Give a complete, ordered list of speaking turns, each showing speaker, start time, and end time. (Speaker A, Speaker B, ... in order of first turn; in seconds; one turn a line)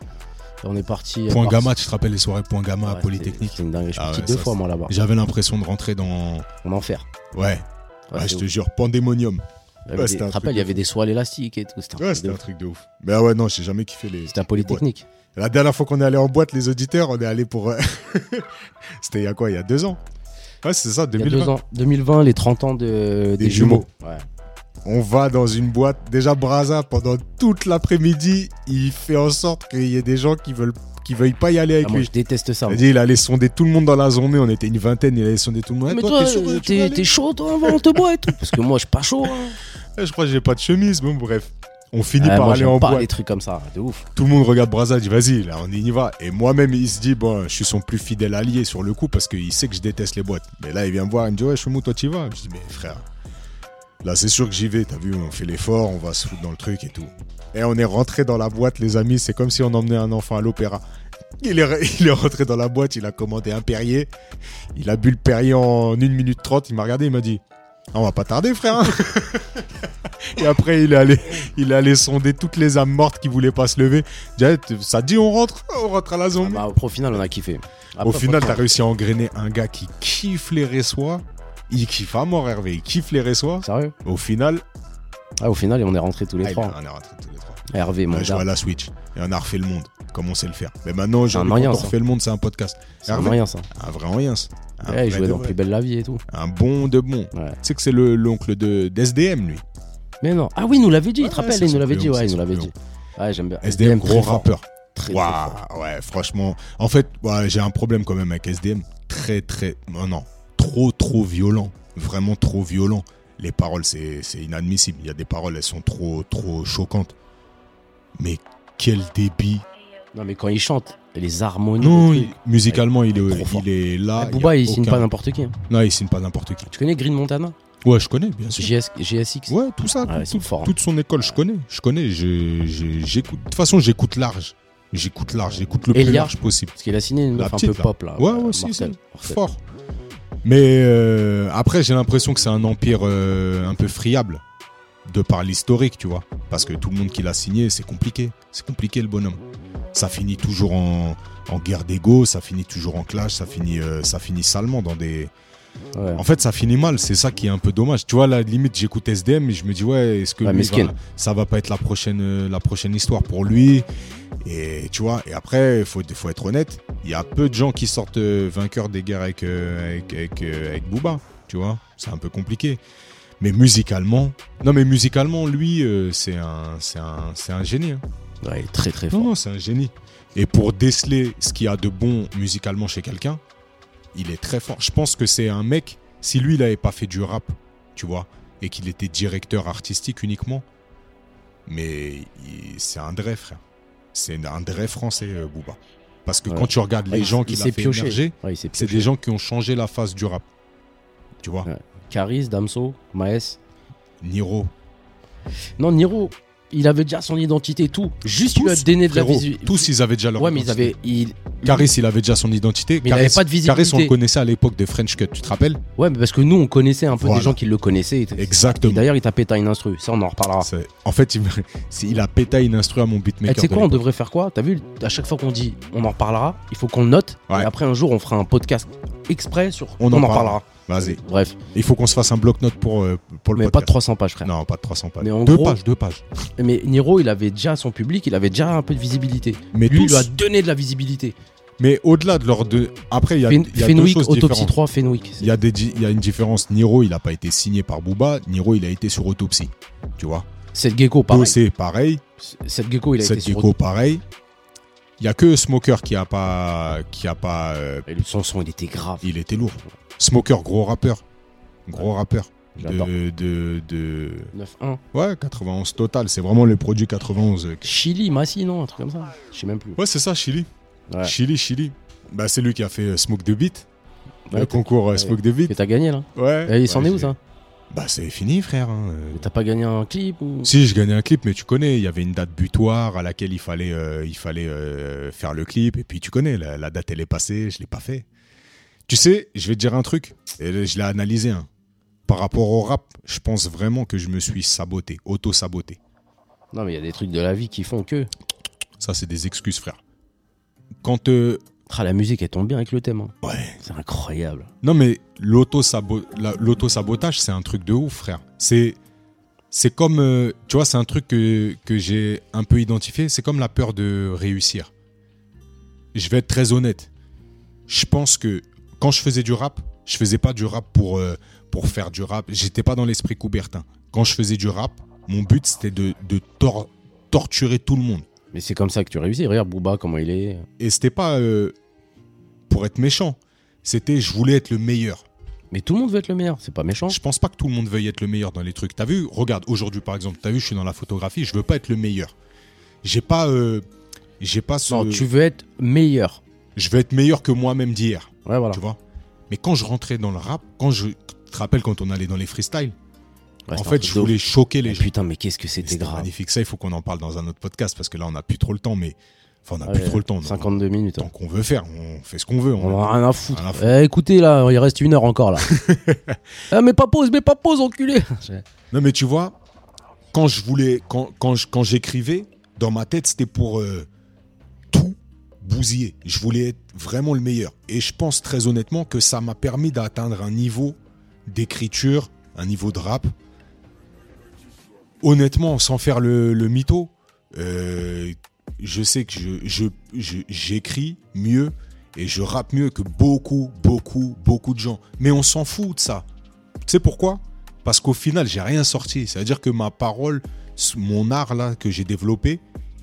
Speaker A: 0.6-1.7
Speaker B: 1.3-6.5
Speaker A: 2.8-4.9
Speaker A: 6.6-7.1
Speaker B: 7.3-10.8
Speaker A: 8.1-8.4
Speaker A: 9.9-12.4
Speaker B: 12.0-20.0
Speaker A: 14.3-15.1
Speaker B: 20.6-21.5
Speaker A: 21.2-24.2
Speaker B: 23.4-23.9
Speaker B: 24.8-32.1
Speaker A: 31.8-32.8
Speaker B: 32.7-38.5
Speaker A: 35.9-39.6
Speaker B: 40.0-43.1
Speaker A: 42.2-44.1
Speaker B: 44.1-53.0
Speaker B: 54.0-60.8
Speaker B: 61.4-64.1
Speaker B: 64.7-67.4
Speaker B: 67.9-76.7
Speaker A: 76.4-78.7
Speaker B: 78.0-84.6
Speaker A: 83.6-83.9
Speaker A: 85.4-86.8
Speaker B: 86.4-95.6
Speaker A: 87.7-88.5
Speaker A: 91.3-91.9
Speaker A: 93.0-93.7
Speaker A: 94.8-96.2
Speaker B: 96.3-99.6
Speaker A: 100.2-105.6
Speaker B: 101.2-102.7
Speaker B: 103.6-117.1
Speaker B: 118.2-119.6
Speaker A: 120.1-123.7
Speaker B: 121.8-125.1
Speaker A: 124.2-125.5
Speaker B: 125.7-126.7
Speaker A: 126.7-127.6
Speaker B: 127.8-128.7
Speaker A: 128.5-131.4
Speaker B: 129.5-136.7
Speaker A: 135.9-139.4
Speaker B: 137.3-139.6
Speaker B: 140.4-144.4
Speaker B: 145.0-149.4
Speaker B: 149.9-155.3
Speaker A: 155.9-156.2
Speaker B: 156.1-163.9
Speaker A: 160.4-160.9
Speaker B: 164.4-172.8
Speaker B: 173.4-178.0
Speaker A: 178.4-179.3
Speaker B: 179.1-183.4
Speaker B: 184.1-190.6
Speaker B: 191.7-193.6
Speaker B: 194.1-200.4
Speaker A: 196.5-199.1
Speaker B: 201.4-201.7
Speaker A: 201.7-203.6
Speaker B: 204.2-204.7
Speaker A: 205.8-211.9
Speaker B: 208.3-210.9
Speaker B: 211.6-215.8
Speaker A: 213.0-214.1
Speaker A: 216.0-220.7
Speaker B: 217.1-217.6
Speaker B: 218.4-219.1
Speaker B: 220.6-224.0
Speaker A: 223.4-231.6
Speaker B: 230.0-231.2
Speaker B: 231.7-236.2
Speaker A: 233.5-234.5
Speaker A: 235.2-235.8
Speaker A: 236.6-241.3
Speaker B: 239.7-240.3
Speaker B: 241.8-244.8
Speaker A: 243.5-245.5
Speaker B: 245.4-250.5
Speaker A: 250.7-251.6
Speaker B: 251.3-252.2
Speaker A: 252.4-253.7
Speaker B: 253.2-254.2
Speaker B: 255.2-258.1
Speaker A: 258.1-259.3
Speaker B: 259.2-261.2
Speaker B: 261.9-264.5
Speaker A: 262.8-263.1
Speaker A: 264.5-265.0
Speaker B: 265.1-267.9
Speaker A: 267.8-270.0
Speaker B: 270.0-270.7
Speaker B: 271.2-273.9
Speaker A: 274.5-277.4
Speaker B: 274.5-275.7
Speaker B: 276.3-277.3
Speaker B: 277.9-279.5
Speaker A: 279.3-280.7
Speaker B: 280.6-288.2
Speaker B: 289.1-291.7
Speaker B: 292.3-296.0
Speaker A: 296.7-298.3
Speaker B: 299.0-300.0
Speaker B: 301.0-301.6
Speaker A: 301.9-304.7
Speaker B: 303.4-303.8
Speaker B: 304.8-309.0
Speaker B: 309.7-314.9
Speaker B: 316.1-317.1
Speaker B: 317.9-328.2
Speaker A: 328.5-330.6
Speaker B: 330.8-331.7
Speaker B: 332.7-335.2
Speaker A: 335.7-337.2
Speaker B: 337.1-342.3
Speaker B: 343.0-343.9
Speaker B: 344.4-345.3
Speaker A: 344.9-346.4
Speaker B: 346.8-352.9
Speaker A: 348.4-348.8
Speaker A: 353.7-356.3
Speaker B: 353.7-355.1
Speaker B: 355.8-363.9
Speaker A: 359.8-361.3
Speaker A: 362.8-365.7
Speaker B: 365.6-366.4
Speaker A: 366.7-368.6
Speaker B: 368.9-369.6
Speaker B: 370.3-374.1
Speaker B: 374.9-383.3
Speaker B: 385.2-396.2
Speaker B: 396.9-402.6